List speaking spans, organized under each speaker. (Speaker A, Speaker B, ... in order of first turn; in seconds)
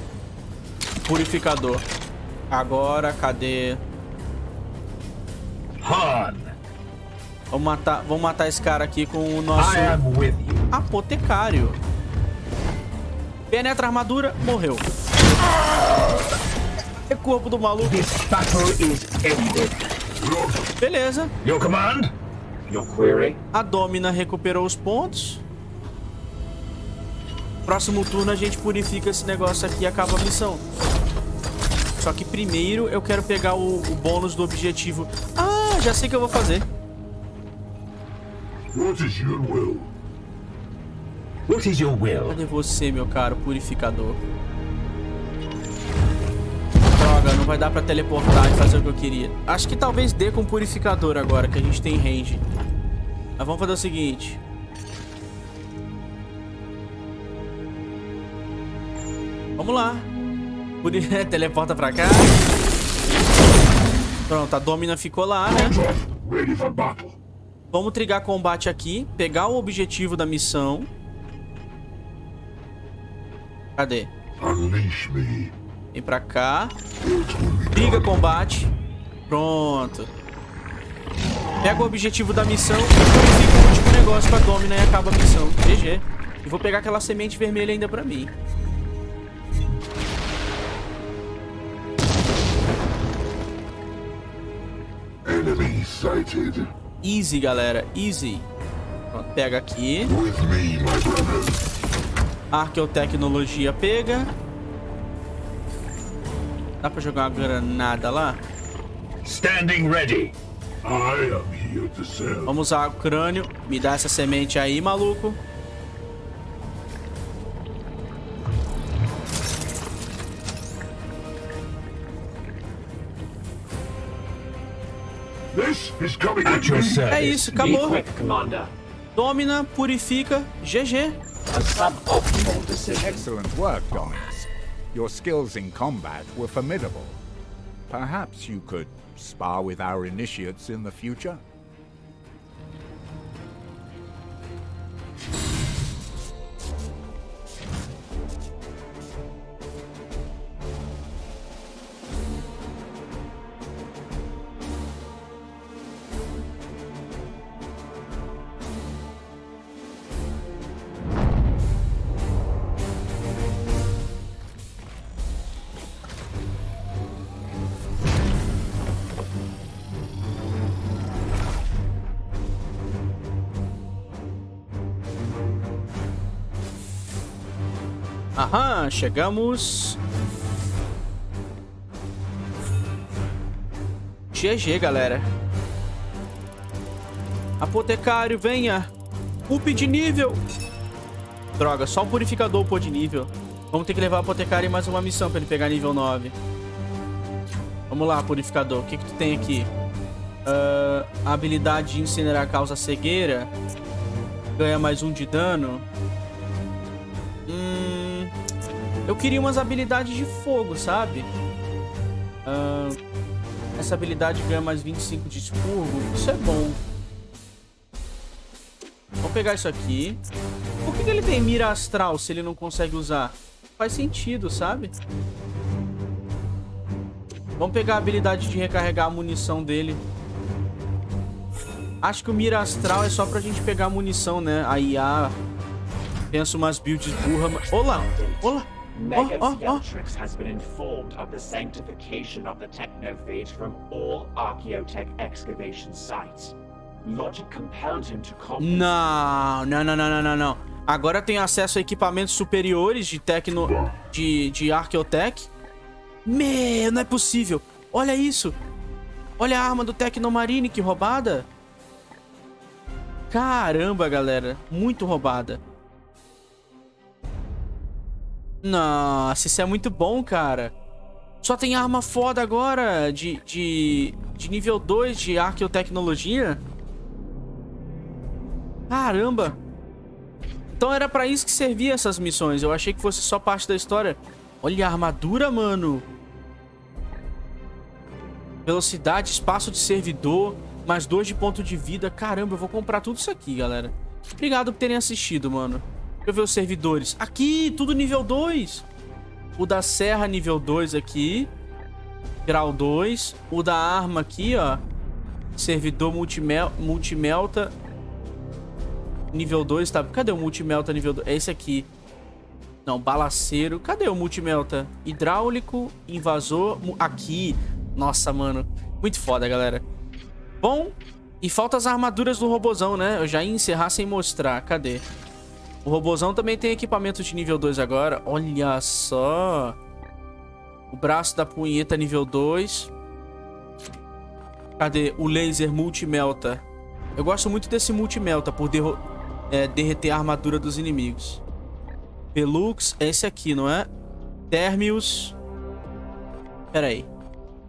Speaker A: 1.0-1.8, 2.5-3.8, 7.5-10.0, 10.7-11.8, 13.5-14.9, 17.1-18.1, 20.8-21.3, 23.5-25.4, 27.6-30.6, 32.0-36.6, 42.3-44.2, 46.9-52.4, 53.4-54.4, 59.6-60.1, 60.8-62.4, 64.3-65.8, 67.7-70.9, 73.8-74.1, 75.9-76.8, 77.7-78.7, 79.3-80.1, 81.6-88.3, 97.0-98.5, 99.1-100.1, 102.5-104.3, 106.8-108.4, 112.5-115.4, 127.1-128.0, 129.2-131.2, 178.3-180.0, 184.3-185.3, 187.6-188.9, 189.5-190.4, 191.6-196.3, 197.9-199.7, 200.4-203.5, 204.6-205.9, 207.5-208.3, 209.1-211.3, 212.4-213.0, 213.8-216.8, 219.2-220.2, 220.8-224.9, 227.6-230.0, 232.0-235.4, 236.3-239.8, 248.6-255.5, 256.2-258.6, 259.4-261.5, 263.3-265.6, 268.6-270.7, 271.4-276.6, 278.9-279.6, 280.7-286.1, 288.6-298.8, 299.6-301.5, 302.4-304.8, 305.6-307.7, 309.3-311.9, 312.9-319.8, 320.6-325.0, 325.8-329.8, 330.9-332.9, 334.8-336.6, 337.1-341.4, 342.3-343.9, 344.5-345.3, 346.7-347.1
Speaker B: 5.8-6.6, 9.6-10.7, 17.8-19.9, 21.4-22.1, 41.5-42.4, 109.2-110.3, 126.4-127.8
Speaker C: 20.2-20.7, 38.7-39.9, 65.5-67.2, 74.4-75.5, 77.0-78.2, 95.2-96.7, 100.1-101.6, 110.8-112.5, 125.5-127.2, 253.7-253.9
Speaker D: 22.7-23.4, 127.5-128.7, 131.5-133.3, 237.9-248.9
Speaker E: 133.0-137.2, 137.9-141.4